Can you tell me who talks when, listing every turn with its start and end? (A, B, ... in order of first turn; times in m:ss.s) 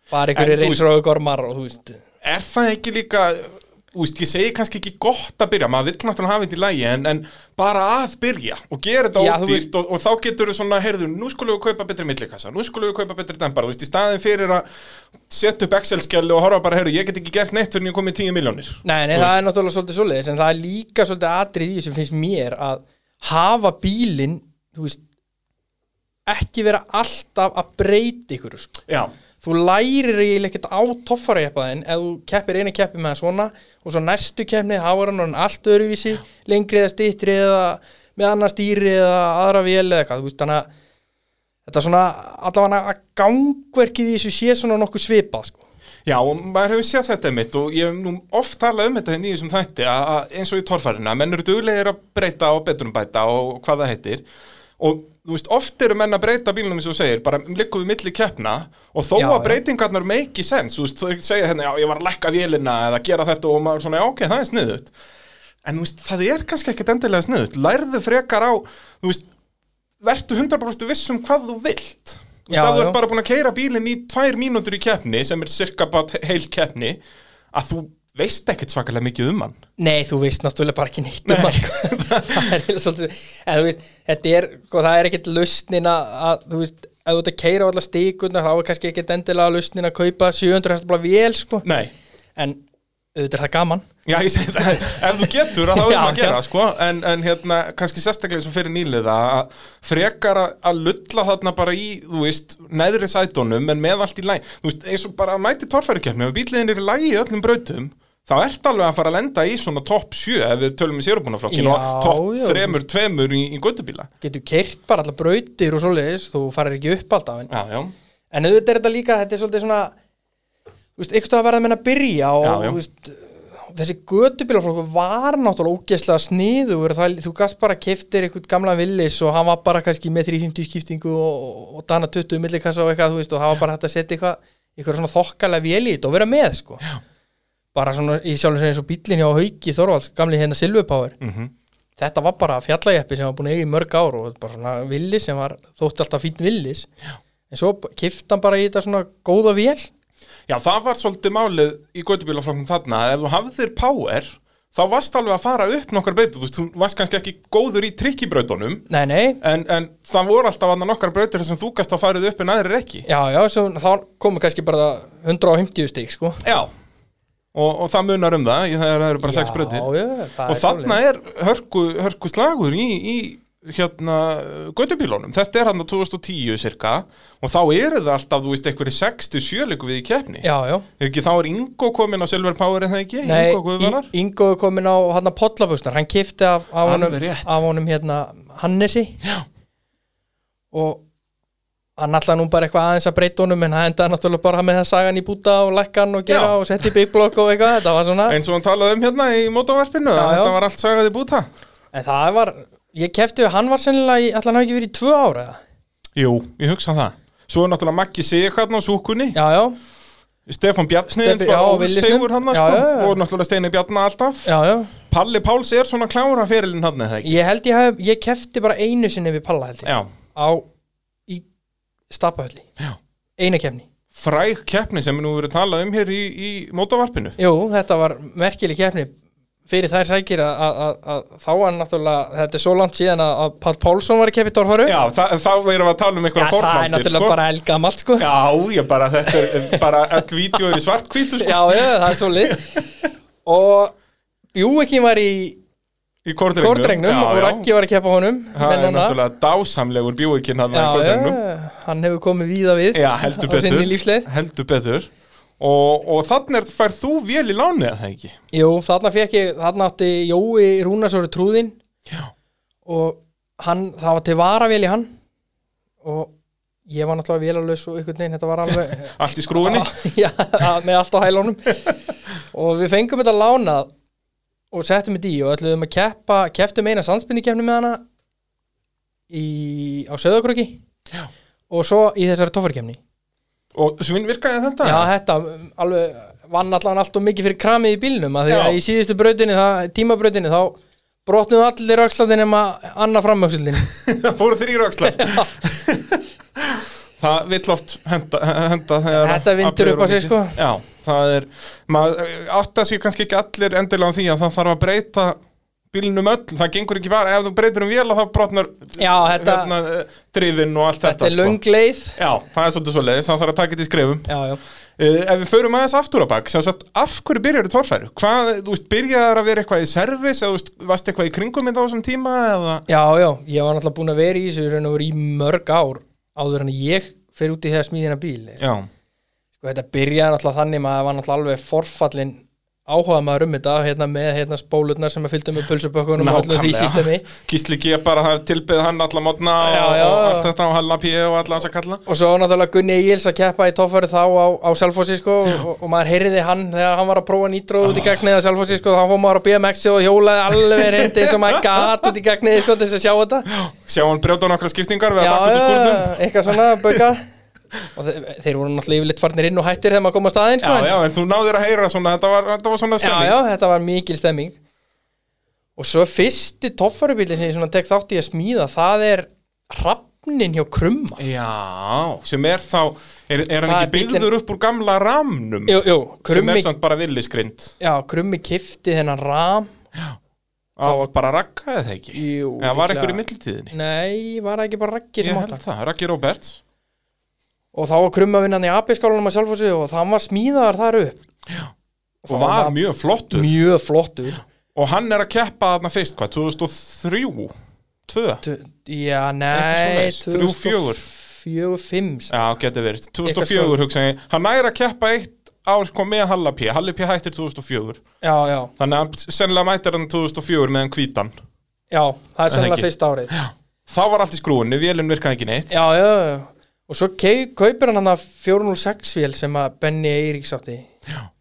0:00.1-0:02.0 A
0:00.3-0:00.8 B
0:02.2-0:14.6 B
0:09.2-0:09.7 A
0:15.3-0:19.4 B
0:18.8-0:25.0 A
0:26.3-0:28.8 A
0:29.4-0:40.7 A
0:41.6-0:45.6 A
0:46.0-0:54.2 B
0:54.8-1:04.9 B
0:59.2-0:59.6 A
1:05.6-1:09.2 B
1:10.0-1:17.0 B
1:12.5-1:13.0 A
1:17.5-1:19.6 B
1:19.8-1:31.7 A
1:21.2-1:22.5 B
1:31.6-1:31.9 B
1:32.4-1:32.6 A
1:33.1-1:33.9 A
1:34.0-1:54.1 B
1:35.6-1:36.4 A
1:51.5-1:52.8 A
1:54.2-1:57.5 A
1:57.5-1:57.9 B
1:58.3-1:59.9 A
2:01.0-2:16.8 A
2:02.4-2:02.8 B
2:17.7-2:21.2 A
2:21.2-2:21.5 B
2:22.0-2:26.9 A
2:27.5-2:29.9 A
2:30.5-2:38.8 B
2:38.9-2:39.4 A
2:39.4-2:43.0 B
2:43.1-2:46.4 A
2:46.4-2:46.7 B
2:47.5-2:49.9 B
2:49.2-2:51.0 A
2:50.5-3:00.4 B
3:00.4-3:00.9 A
3:01.0-3:04.1 B
3:03.2-3:09.2 A
3:06.8-3:07.6 B
3:10.7-3:11.0 A
3:12.0-3:18.4 A
3:16.3-3:16.6 B
3:18.3-3:21.5 B
3:20.1-3:20.6 A
3:21.9-3:25.6 A
3:26.2-3:29.4 B
3:29.3-3:29.8 A
3:30.5-3:34.5 B
3:31.1-3:33.2 A
3:34.4-3:34.9 A
3:35.1-3:37.4 B
3:37.2-3:40.6 A
3:39.8-3:40.1 B
3:42.1-3:42.7 A
3:43.4-3:43.8 A
3:44.1-3:47.4 B
3:47.4-3:49.1 A
3:49.7-3:55.0 A
3:54.8-3:57.4 B
3:56.4-3:58.3 A
3:58.2-4:02.6 B
3:59.4-3:59.8 A
4:01.4-4:02.7 A
4:03.4-4:03.9 A
4:04.5-4:05.6 A
4:06.2-4:07.7 B
4:06.6-4:09.2 A
4:08.5-4:11.4 B
4:10.7-4:14.3 A
4:12.9-4:18.3 B
4:18.5-4:21.8 A
4:22.8-4:25.1 A
4:26.0-4:26.3 A
4:26.9-4:31.8 A
4:28.7-4:29.9 B
4:32.5-4:33.9 A
4:34.7-4:38.0 A
4:39.3-4:40.8 A
4:41.7-4:43.0 A
4:43.7-4:45.1 B
4:44.8-4:53.9 A
4:48.5-4:48.8 B
4:53.9-5:05.4 B
4:55.1-4:55.5 A
4:59.1-5:00.6 A
5:05.9-5:11.6 B
5:09.0-5:09.7 A
5:11.0-5:12.2 A
5:12.2-5:14.3 B
5:14.3-5:14.6 A
5:15.0-5:22.8 B
5:22.9-5:28.6 A
5:28.6-5:28.9 B
5:29.6-5:37.3 A
5:36.2-5:42.0 B
5:39.6-5:40.5 A
5:42.0-5:53.5 A
5:47.8-5:48.2 B
5:50.6-5:52.1 B
5:53.5-5:57.0 B
5:55.2-5:57.2 A
5:57.9-6:00.9 A
6:00.6-6:03.4 B
6:03.0-6:04.6 A
6:05.8-6:11.2 A
6:11.2-6:17.7 B
6:13.6-6:14.3 A
6:15.7-6:16.7 A
6:17.8-6:19.7 A
6:20.8-6:23.7 B
6:22.1-6:25.6 A
6:25.2-6:26.6 B
6:27.7-6:31.2 A
6:32.2-6:32.8 A
6:32.3-6:33.5 B
6:33.3-6:34.4 A
6:34.7-6:37.5 B
6:38.1-6:38.4 B
6:38.4-6:42.3 A
6:39.5-6:41.0 B
6:42.3-6:48.0 B
6:43.2-6:43.8 A
6:48.2-6:48.7 A
6:48.8-6:51.3 B
6:51.9-6:53.3 A
6:52.5-6:55.8 B
6:55.7-7:00.9 A